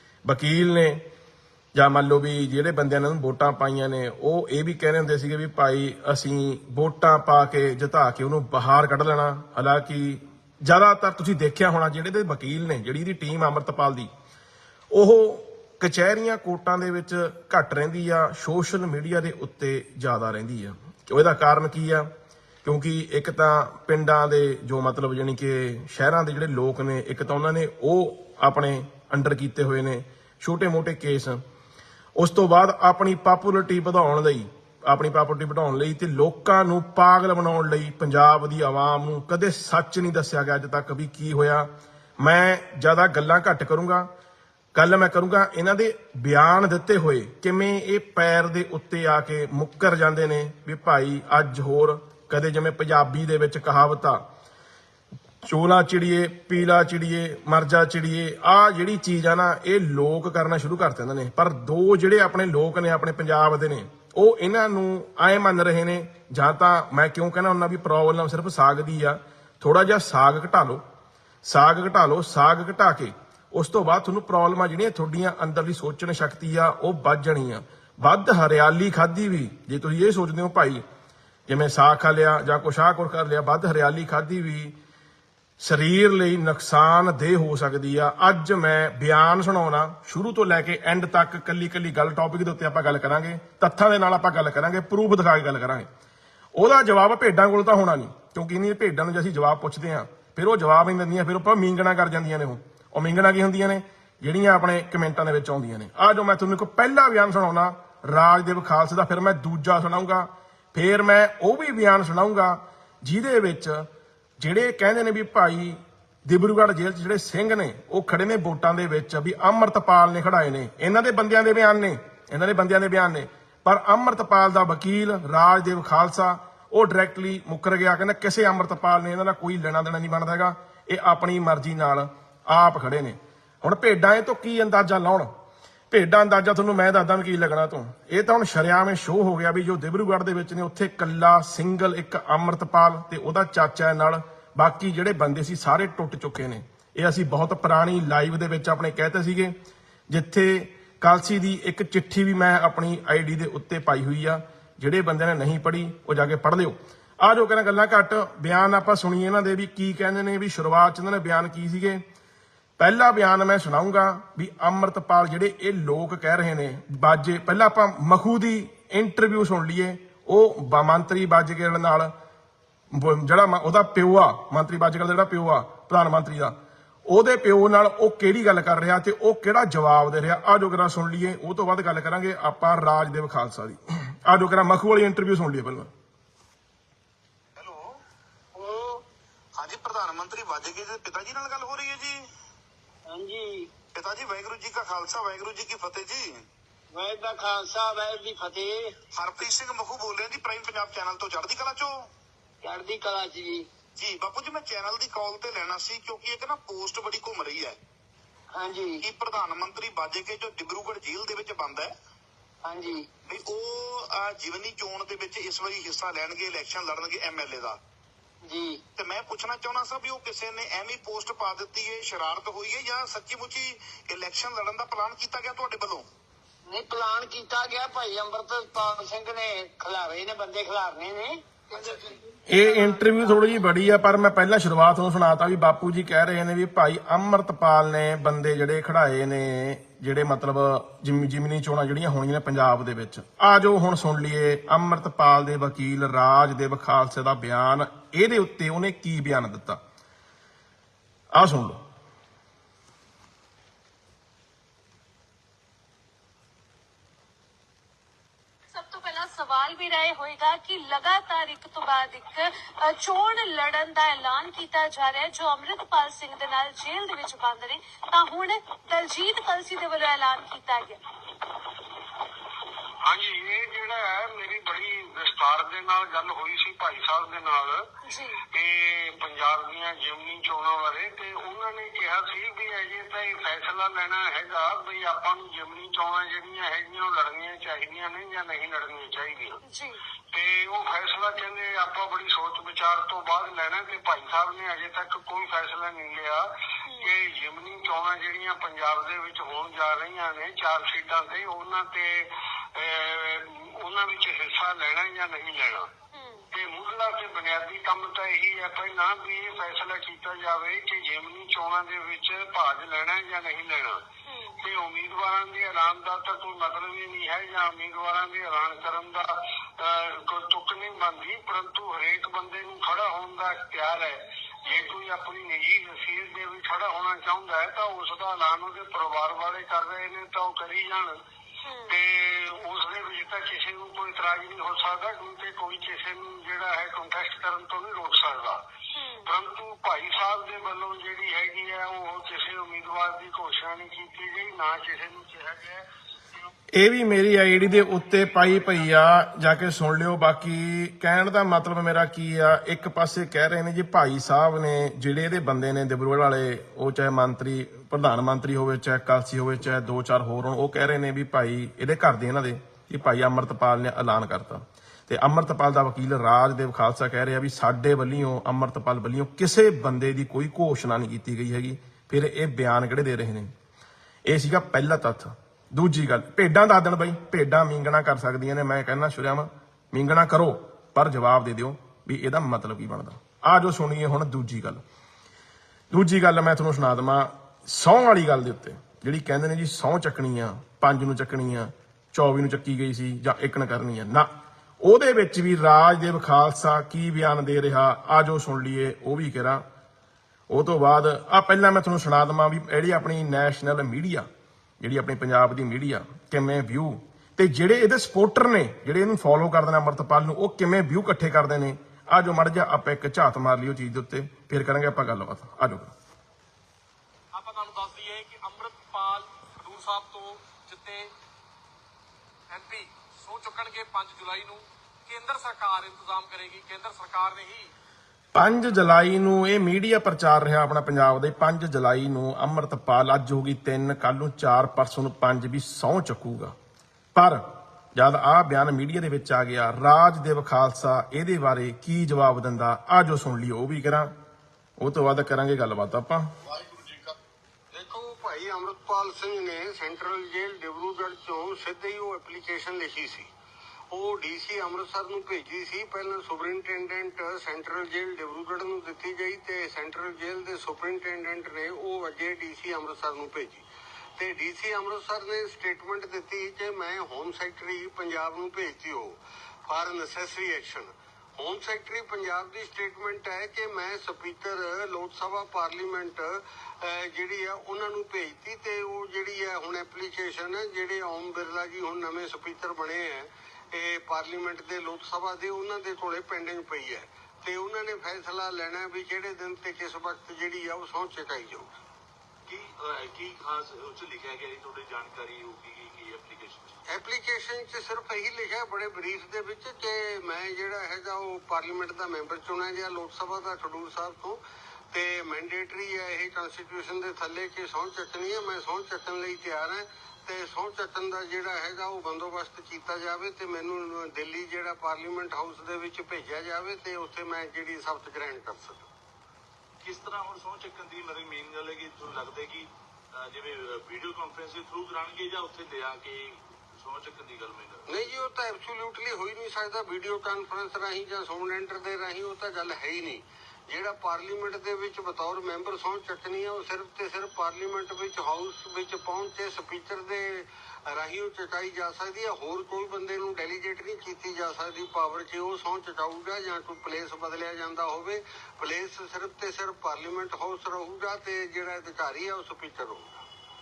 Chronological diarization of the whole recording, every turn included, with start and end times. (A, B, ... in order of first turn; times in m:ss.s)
0:00.2-0:01.0 A
0:01.7-0:14.1 A
0:14.9-0:22.1 A
0:22.6-0:31.4 A
0:32.2-0:41.7 A
0:42.2-0:44.1 A
0:44.7-0:54.2 A
0:55.4-1:10.8 A
1:11.4-1:20.8 A
1:21.5-1:24.7 A
1:25.6-1:35.9 A
1:36.5-1:53.8 A
1:54.4-2:15.3 A
2:15.9-2:29.5 A
2:30.1-2:42.0 A
2:42.8-2:52.1 A
2:52.9-2:56.5 A
2:57.1-3:05.9 A
3:07.6-3:07.8 B
3:08.5-3:09.0 C
3:09.6-3:12.2 B
3:13.1-3:13.7 C
3:13.9-3:16.4 B
3:16.9-3:18.9 C
3:19.1-3:21.9 B
3:22.6-3:23.7 C
3:24.0-3:27.8 B
3:28.5-3:29.0 C
3:29.0-3:31.9 B
3:32.6-3:33.1 C
3:33.2-3:37.8 B
3:38.4-3:38.8 C
3:38.9-3:46.0 B
3:46.6-3:53.5 C
3:52.5-4:09.8 A
4:11.3-4:11.8 A
4:18.7-4:31.0 D
4:33.0-4:37.8 E
4:38.0-4:38.4 D
4:38.5-4:49.6 E
4:49.7-4:50.0 D
4:50.3-4:56.4 E
4:56.9-4:57.1 D
4:57.0-5:05.9 E
5:06.1-5:06.4 D
5:06.5-5:14.0 E
5:14.3-5:14.6 D
5:14.6-5:19.3 E
5:19.8-5:31.1 E
5:24.7-5:24.9 D
5:31.6-5:31.9 D
5:31.9-5:38.6 E
5:38.9-5:39.3 D
5:39.2-5:46.5 E
5:46.8-6:13.5 A
5:47.6-5:48.9 E
6:14.2-6:24.8 A
6:25.9-6:34.3 A
6:34.8-6:39.6 A
6:40.5-6:44.3 A
6:44.8-6:55.9 A
6:57.3-7:01.1 F
7:02.5-7:07.7 F
7:08.3-7:16.5 A
7:17.1-7:17.4 A
7:17.9-7:24.1 A
7:24.8-7:26.3 A
7:27.7-7:33.3 E
7:33.9-7:43.6 E
7:44.2-8:11.7 E
8:12.4-8:16.8 G
8:16.9-8:24.4 E
8:24.9-8:38.9 E
8:39.8-8:47.9 G
8:47.9-9:13.2 E